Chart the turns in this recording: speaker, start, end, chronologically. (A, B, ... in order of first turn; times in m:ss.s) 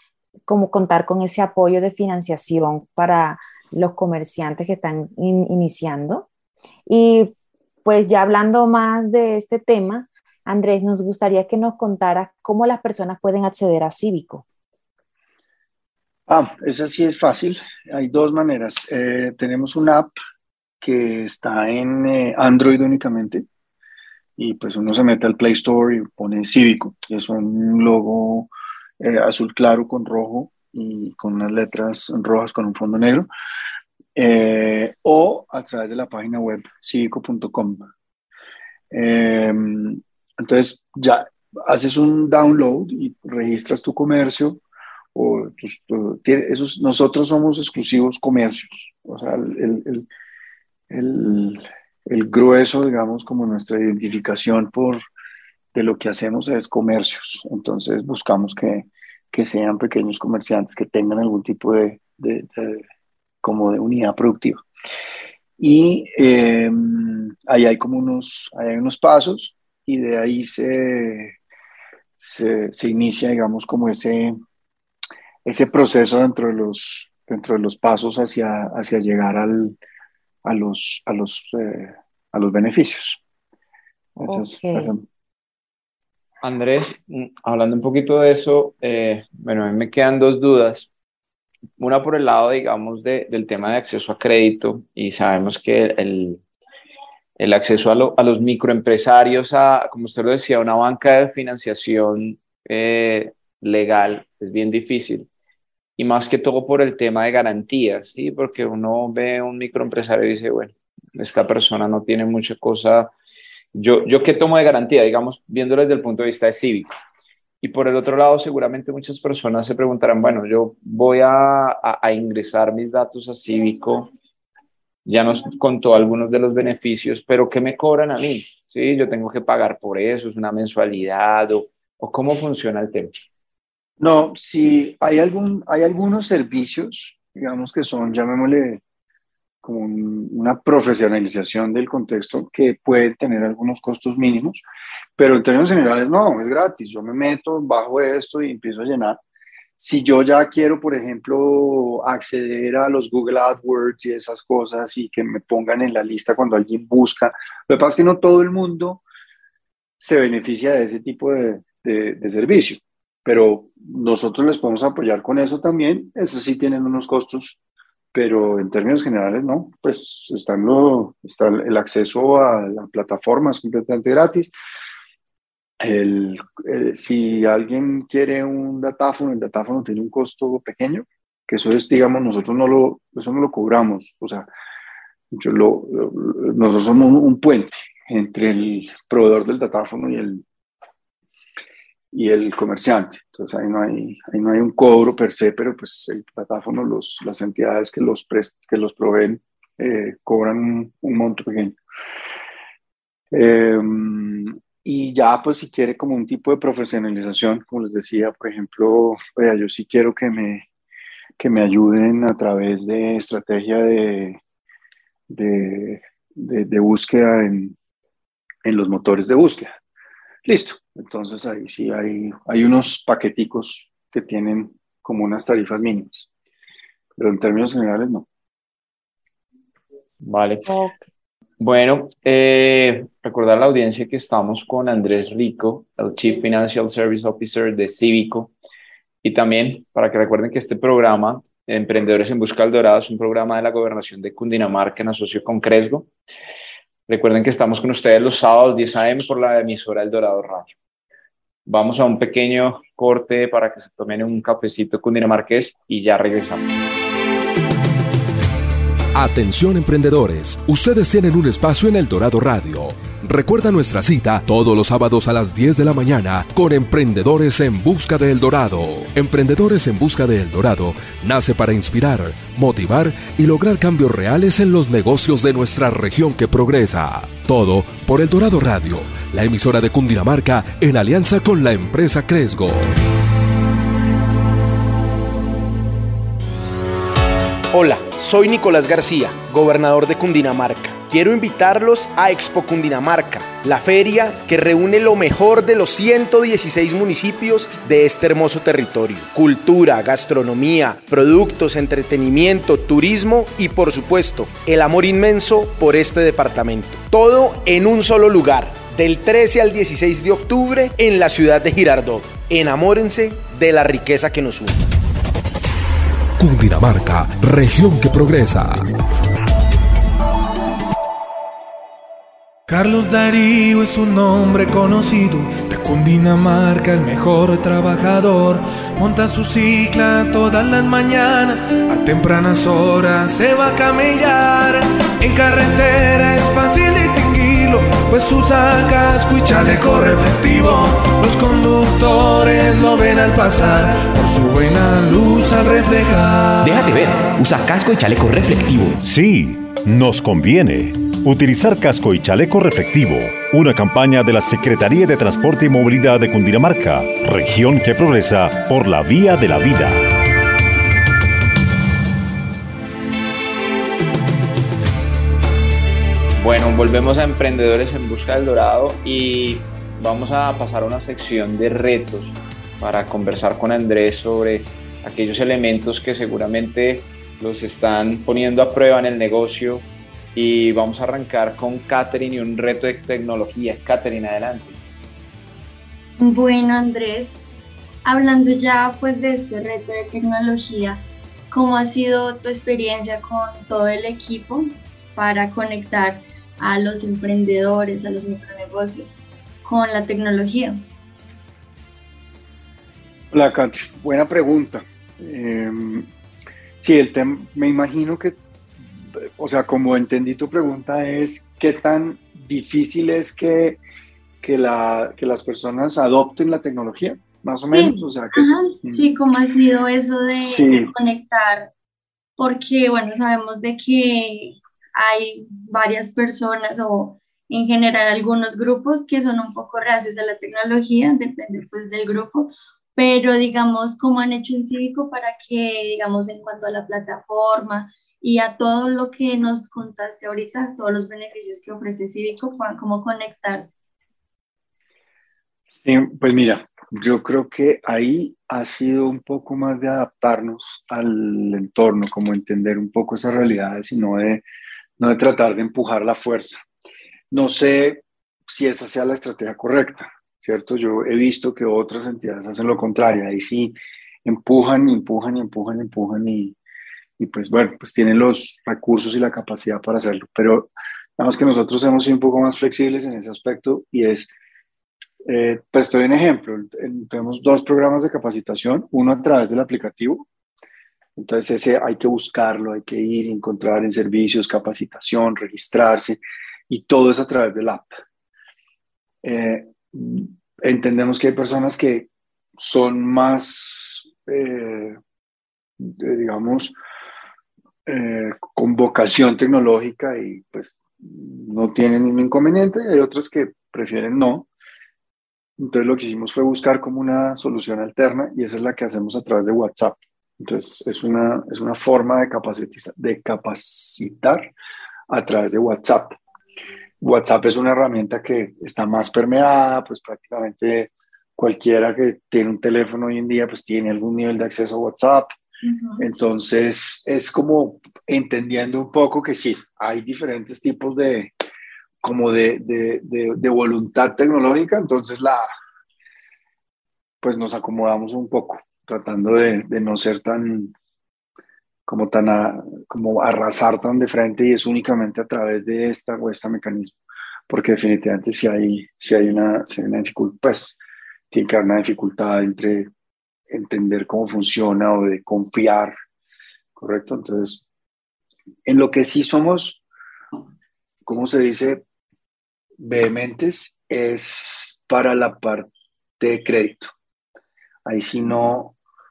0:00.5-0:06.3 A
0:06.9-0:07.3 A
0:07.8-0:14.4 A
0:16.3-0:20.2 B
0:20.8-0:23.4 B
0:24.4-0:33.3 B
0:34.2-0:37.9 B
0:38.9-0:44.6 B
0:45.1-0:50.1 B
0:50.9-0:55.0 B
0:55.7-1:02.8 B
1:03.4-1:04.6 B
1:05.6-1:11.4 B
1:12.2-1:14.4 B
1:15.4-1:19.8 B
1:20.4-1:23.2 B
1:24.2-1:25.0 B
1:24.3-1:24.9 A
1:26.4-1:30.9 C
1:31.8-1:36.4 C
1:37.4-1:45.3 C
1:46.0-1:53.1 C
1:53.7-1:56.9 C
1:57.6-2:04.1 C
2:05.1-2:13.1 C
2:14.0-2:18.8 B
2:19.6-2:24.6 B
2:25.2-2:29.2 B
2:29.8-2:39.0 B
2:40.0-2:47.6 B
2:48.1-2:54.5 B
2:55.8-3:04.5 B
3:05.3-3:10.4 B
3:12.1-3:21.8 B
3:23.3-3:30.7 B
3:31.4-3:34.4 B
3:35.3-3:37.8 B
3:38.6-3:39.7 B
3:40.4-3:46.3 B
3:47.2-3:48.3 B
3:50.2-3:50.8 C
3:50.7-3:50.9 A
3:51.6-3:58.5 C
3:59.2-4:06.1 C
4:07.1-4:10.7 C
4:11.7-4:16.6 C
4:19.2-4:42.9 D
4:47.7-5:14.8 E
5:16.4-5:18.9 D
5:22.7-5:46.8 F
5:46.6-5:49.0 G
5:49.0-6:00.1 H
6:06.4-6:24.8 C
6:26.2-6:27.4 I
6:28.0-6:40.8 I
6:43.3-6:46.1 B
6:46.8-6:53.8 B
6:54.4-6:59.1 B
6:57.7-7:01.7 I
7:00.2-7:00.9 B
7:02.4-7:23.8 I
7:25.8-7:34.4 B
7:35.0-7:36.6 B
7:37.3-7:46.6 B
7:47.2-7:54.3 B
7:55.2-8:00.3 B
8:01.2-8:07.9 B
8:09.2-8:15.0 B
8:15.8-8:16.8 B
8:17.9-8:24.5 B
8:25.6-8:34.5 B
8:35.1-8:36.2 B
8:37.0-8:45.3 B
8:45.6-8:46.0 I
8:46.0-8:51.3 B
8:52.0-8:55.5 B
8:57.2-9:00.7 B
9:01.9-9:07.0 B
9:07.5-9:10.8 B
9:11.3-9:12.9 B
9:13.5-9:16.0 B
9:16.8-9:17.6 B
9:18.7-9:19.8 B
9:21.0-9:21.8 B
9:22.8-9:26.9 B
9:27.8-9:28.8 B